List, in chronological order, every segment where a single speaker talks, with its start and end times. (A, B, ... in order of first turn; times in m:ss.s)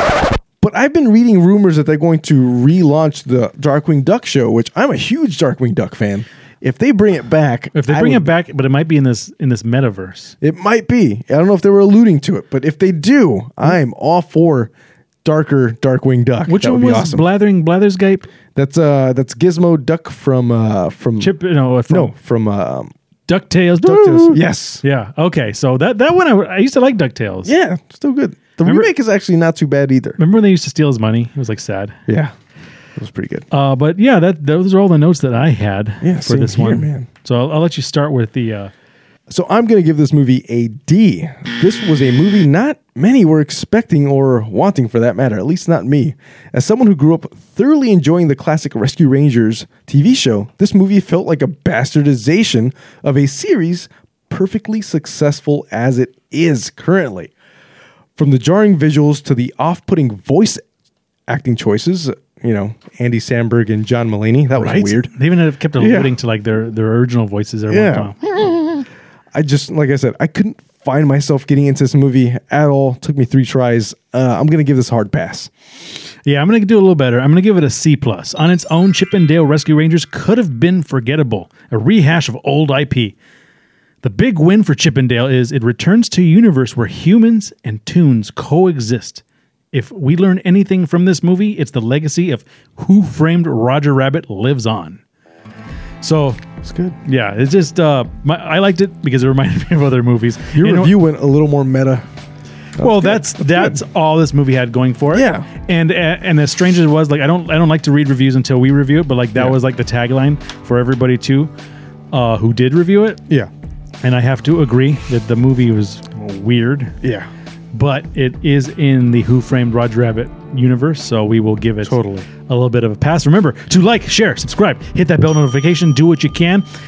0:00.6-0:08.3 A
0:07.7-0:10.3 B
0:10.4-0:14.7 A
0:15.2-0:17.2 A
0:16.5-0:18.3 B
0:18.5-0:21.3 A
0:21.2-0:22.1 B
0:21.9-0:22.9 A
0:23.3-0:27.5 B
0:23.8-0:24.8 A
0:27.4-0:30.2 A
0:28.6-0:28.9 B
0:30.2-0:32.0 B
0:32.1-0:32.3 A
0:33.0-0:33.5 A
0:33.5-0:38.7 B
0:36.0-0:37.1 A
0:39.3-0:57.3 A
0:58.2-1:00.6 A
1:01.3-1:05.1 A
1:04.5-1:08.6 B
1:05.8-1:06.1 A
1:07.7-1:08.1 A
1:09.3-1:15.5 A
1:16.2-1:23.1 B
1:24.0-1:29.2 B
1:29.7-1:35.0 B
1:36.0-1:36.4 B
1:36.6-1:37.0 A
1:37.0-1:40.9 B
1:40.5-1:42.0 A
1:42.8-1:43.8 A
1:42.8-1:51.5 B
1:45.1-1:45.5 A
1:52.1-1:53.2 B
1:54.0-1:56.9 B
1:57.0-1:57.3 A
1:57.7-2:06.6 B
2:01.8-2:02.3 A